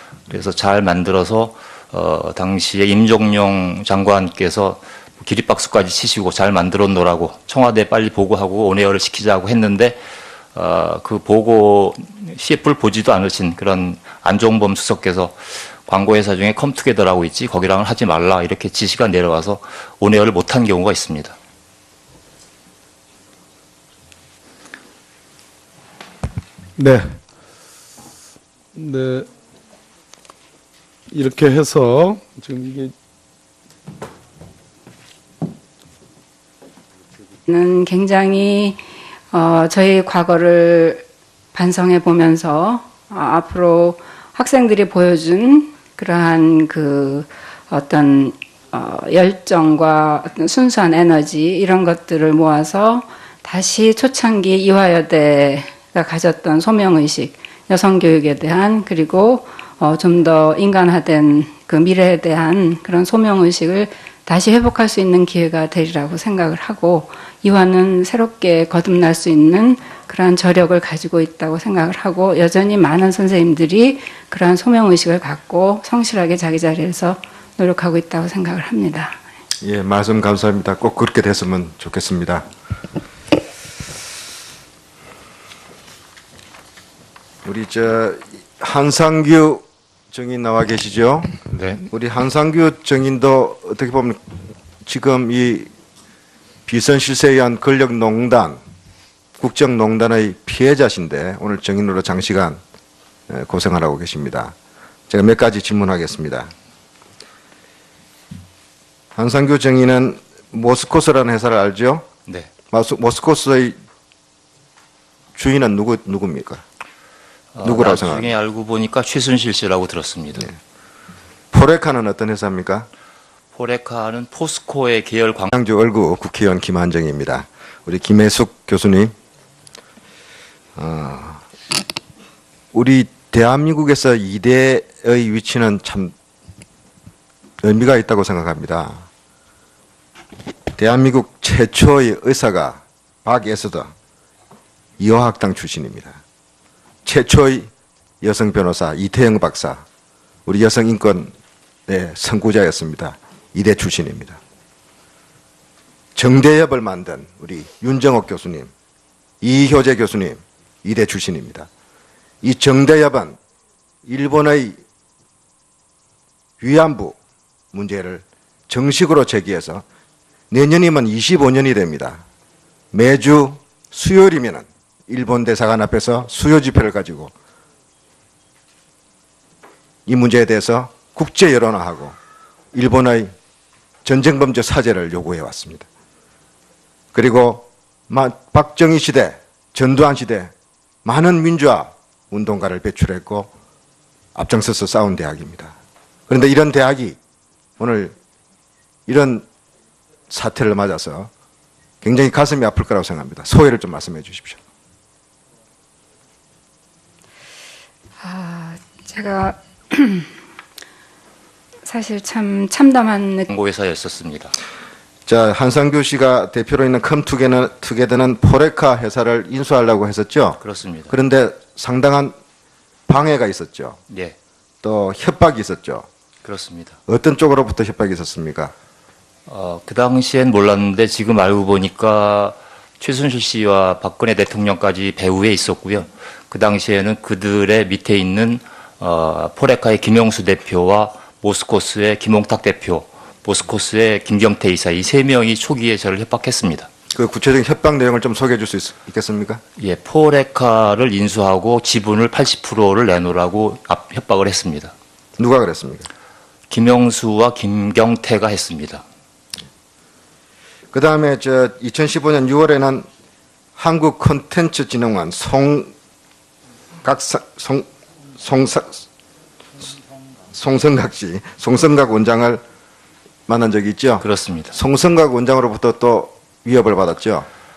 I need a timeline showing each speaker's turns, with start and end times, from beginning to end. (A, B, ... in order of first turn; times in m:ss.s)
0:00.3-0:10.0 A
0:10.5-0:21.4 A
0:26.8-0:27.2 B
0:28.8-0:29.3 B
0:31.1-0:32.9 B
0:37.5-0:38.8 C
0:39.3-1:19.2 C
1:19.6-1:22.5 D
1:27.4-1:31.3 D
1:31.5-1:31.8 A
1:31.9-1:34.2 D
1:34.8-1:35.7 D
1:36.7-1:38.6 D
1:39.4-1:42.6 D
1:43.3-1:44.6 D
1:45.1-1:46.5 D
1:49.2-1:52.0 D
1:52.7-1:53.8 D
1:55.4-1:56.6 D
1:57.5-2:00.5 A
1:57.6-1:58.3 D
2:01.5-2:02.9 D
2:03.5-2:05.5 A
2:05.5-2:09.1 D
2:10.8-2:11.4 D
2:12.7-2:16.1 D
2:17.6-2:19.0 D
2:20.8-2:23.9 D
2:25.0-2:26.2 D
2:27.0-2:27.7 D
2:28.2-2:29.8 D
2:30.5-2:31.3 D
2:31.9-2:34.4 D
2:36.2-2:38.7 D
2:39.4-2:41.7 D
2:42.4-2:43.4 D
2:44.1-2:44.8 D
2:46.6-2:47.2 D
2:47.7-2:49.8 D
2:50.5-2:52.2 D
2:52.9-2:57.3 D
3:00.1-3:02.2 D
3:02.7-3:03.3 D
3:04.0-3:05.9 D
3:07.1-3:10.5 D
3:11.0-3:13.5 D
3:14.4-3:15.7 D
3:16.3-3:17.2 D
3:17.8-3:18.2 D
3:19.1-3:19.4 D
3:20.3-3:21.3 D
3:22.0-3:24.6 D
3:28.2-3:30.3 C
3:31.8-3:33.5 C
3:33.5-3:34.6 A
3:35.3-3:42.4 D
3:40.6-3:41.1 A
3:43.1-3:44.0 D
3:44.1-3:44.4 A
3:44.8-3:46.1 D
3:46.4-3:47.0 A
3:47.1-3:48.7 D
3:49.5-4:06.9 A
4:07.1-4:09.6 D
4:09.8-4:14.9 A
4:15.4-4:16.1 D
4:16.7-4:19.0 A
4:20.9-4:23.1 D
4:23.8-4:25.9 D
4:27.0-4:27.9 D
4:28.4-4:29.0 D
4:30.5-4:32.6 D
4:33.5-4:37.5 D
4:34.2-4:34.8 A